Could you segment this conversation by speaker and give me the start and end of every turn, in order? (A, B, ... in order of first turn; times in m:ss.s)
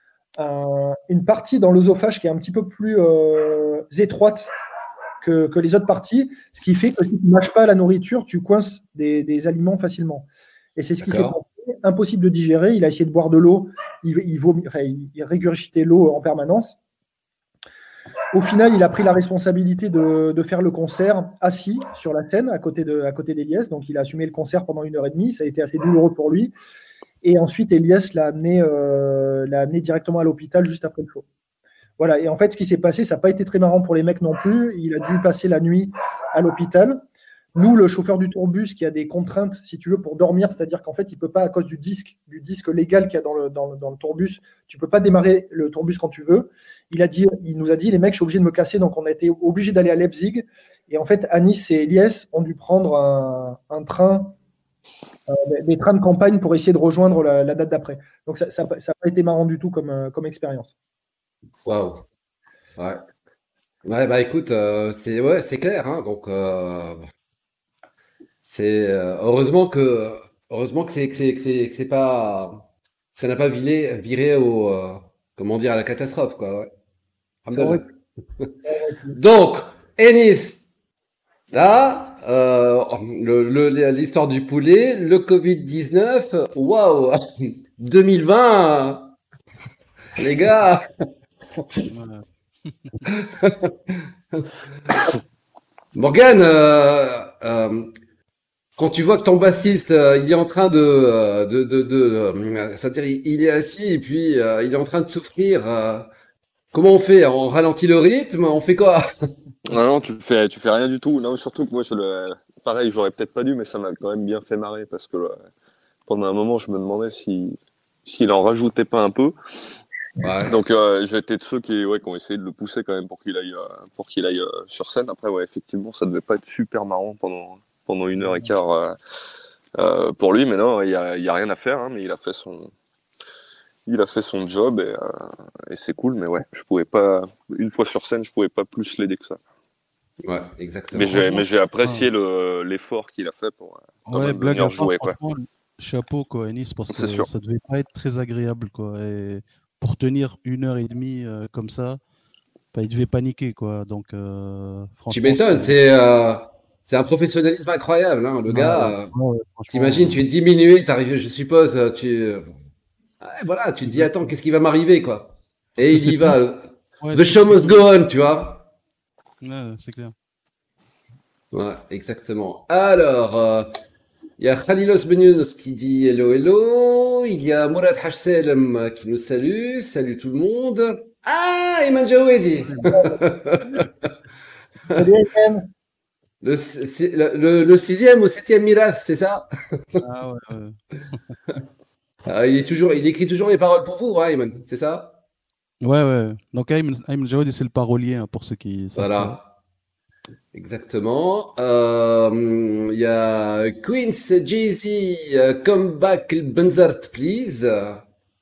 0:00.4-0:04.5 A
0:05.2-0:16.8 A
0:11.0-0:11.3 B
0:18.3-0:26.5 A
0:27.2-0:31.2 A
0:32.0-0:37.0 A
0:37.5-0:54.3 A
0:55.3-1:00.7 A
1:01.6-1:02.0 B
1:02.8-1:03.0 B
1:03.8-1:07.1 B
1:08.4-1:12.6 B
1:13.1-1:16.7 B
1:17.4-1:17.8 B
1:17.5-1:17.8 A
1:18.6-1:19.2 A
1:19.1-1:20.6 B
1:21.5-1:29.1 B
1:30.2-1:30.9 B
1:31.9-1:33.0 C
1:33.1-1:35.1 B
1:35.9-1:37.9 B
1:38.8-1:46.1 B
1:46.7-1:49.1 B
1:49.7-1:55.4 D
1:56.1-1:59.4 D
2:00.2-2:00.6 B
2:00.5-2:09.0 D
2:09.8-2:12.7 D
2:13.8-2:19.4 D
2:20.2-2:21.4 B
2:20.9-2:25.1 D
2:21.1-2:22.0 C
2:24.1-2:32.0 C
2:26.9-2:27.3 D
2:32.7-2:35.7 C
2:35.1-2:39.1 B
2:38.5-2:40.2 C
2:39.7-2:42.5 B
2:43.2-2:48.6 B
2:45.8-2:46.4 C
2:47.0-2:47.8 C
2:49.4-2:50.1 C
2:51.5-2:53.7 B
2:54.4-3:03.8 B
3:02.6-3:03.0 C
3:04.9-3:05.7 A
3:06.4-3:09.8 B
3:10.0-3:10.8 C
3:12.3-3:15.2 B
3:15.8-3:19.4 C
3:19.0-3:19.4 B
3:20.5-3:28.0 B